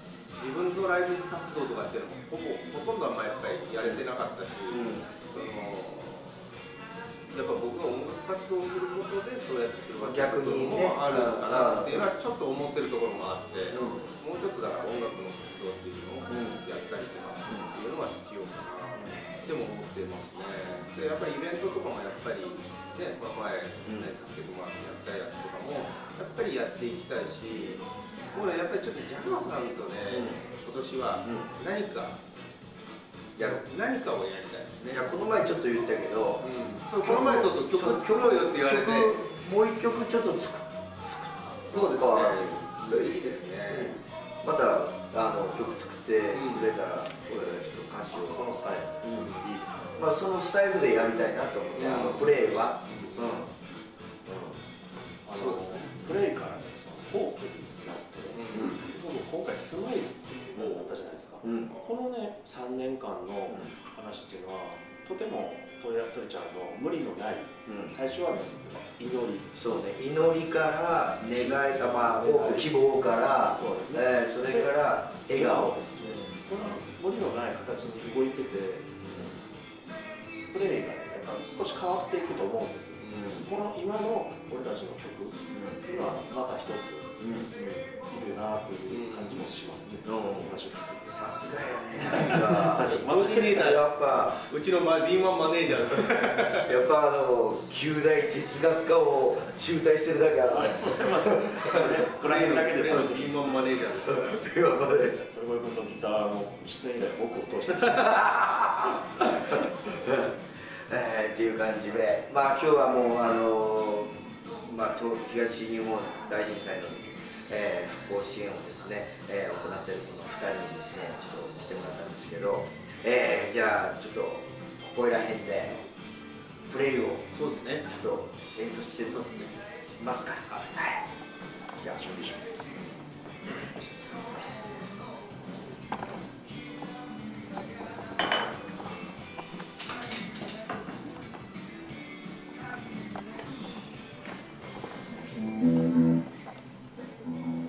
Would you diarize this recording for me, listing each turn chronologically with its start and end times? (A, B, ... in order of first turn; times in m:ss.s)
0:00.4-0:06.4 A
0:04.7-0:05.1 B
0:07.3-0:32.2 A
0:10.0-0:12.1 B
0:13.7-0:14.1 B
0:16.3-0:16.6 B
0:18.9-0:19.3 B
0:30.1-0:30.4 B
0:31.2-0:31.5 B
0:33.4-0:35.0 A
0:34.9-0:36.4 B
0:36.4-0:39.2 A
0:37.0-0:48.4 B
0:41.7-0:44.0 A
0:46.3-0:46.7 A
0:48.1-0:50.0 C
0:49.0-0:49.4 B
0:50.0-0:53.5 B
0:51.8-0:53.4 A
0:52.3-0:52.6 C
0:54.2-0:54.6 C
0:55.2-1:09.6 C
0:58.3-0:58.8 A
1:00.6-1:00.8 B
1:01.4-1:01.7 B
1:07.6-1:07.9 B
1:09.6-1:16.2 B
1:12.1-1:14.8 C
1:15.3-1:19.3 C
1:20.5-1:31.4 C
1:23.0-1:23.3 A
1:23.1-1:23.5 B
1:25.5-1:25.8 B
1:27.2-1:27.5 B
1:28.9-1:29.5 A
1:30.0-1:30.5 B
1:31.1-1:34.4 B
1:32.0-1:33.5 C
1:32.7-1:36.7 A
1:36.6-1:42.0 B
1:40.5-1:43.6 C
1:42.2-1:44.4 A
1:44.0-1:45.2 B
1:45.2-1:48.5 C
1:48.0-2:05.8 B
2:06.7-2:07.3 B
2:07.3-2:07.8 A
2:07.8-2:11.0 B
2:11.8-2:12.7 C